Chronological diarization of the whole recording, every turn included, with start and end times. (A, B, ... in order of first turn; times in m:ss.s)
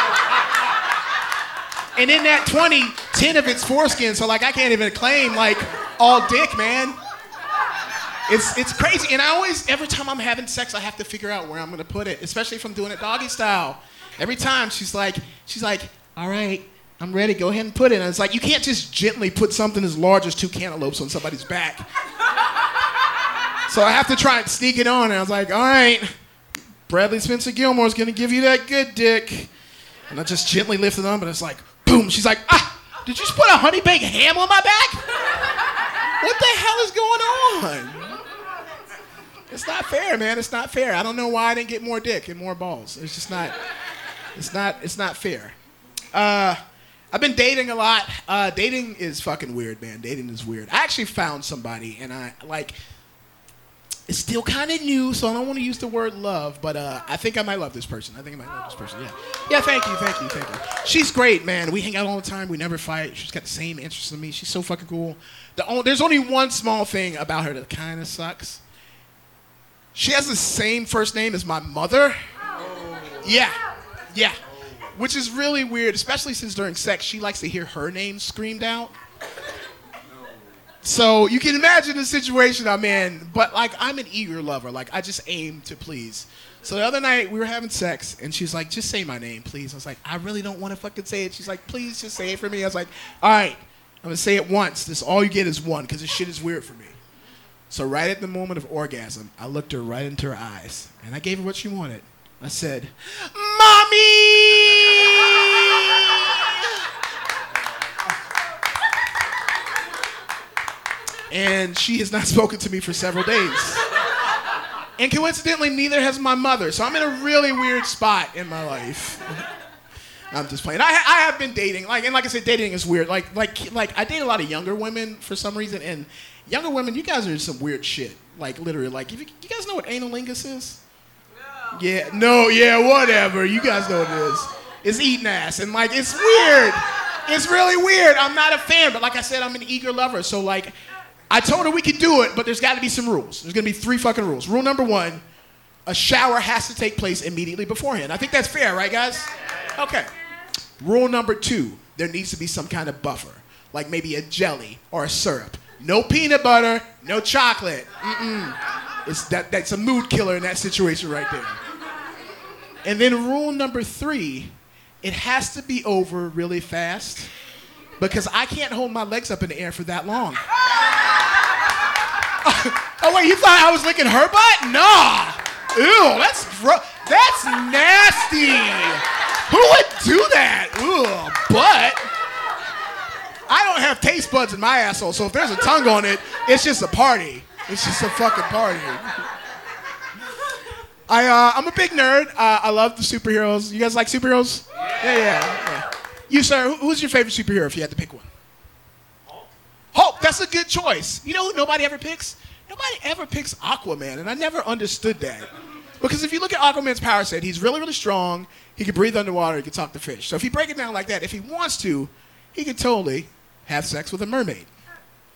0:02.0-0:07.0 A
0:08.3-0:21.9 A
0:23.7-0:26.1 A
0:26.9-0:29.5 A
0:30.1-0:35.0 A
0:36.2-0:38.2 A
0:39.5-0:43.6 A
0:44.3-0:45.6 A
0:46.1-0:46.6 A
0:47.1-0:52.7 A
0:54.1-1:08.6 A
1:10.0-1:12.2 A
1:13.1-1:13.6 A
1:14.9-1:18.9 A
1:20.8-1:37.0 A
1:37.7-1:46.8 A
1:51.3-1:53.8 A
1:55.0-1:59.4 A
2:00.3-2:10.8 A
2:11.7-2:20.7 A
2:21.3-2:25.2 A
2:25.9-2:30.1 A
2:30.8-2:41.6 A
2:42.8-2:47.3 A
2:48.0-2:50.4 A
2:52.4-3:02.1 A
3:03.5-3:09.2 A
3:11.1-3:18.3 A
3:19.9-3:25.5 A
3:26.0-3:34.7 A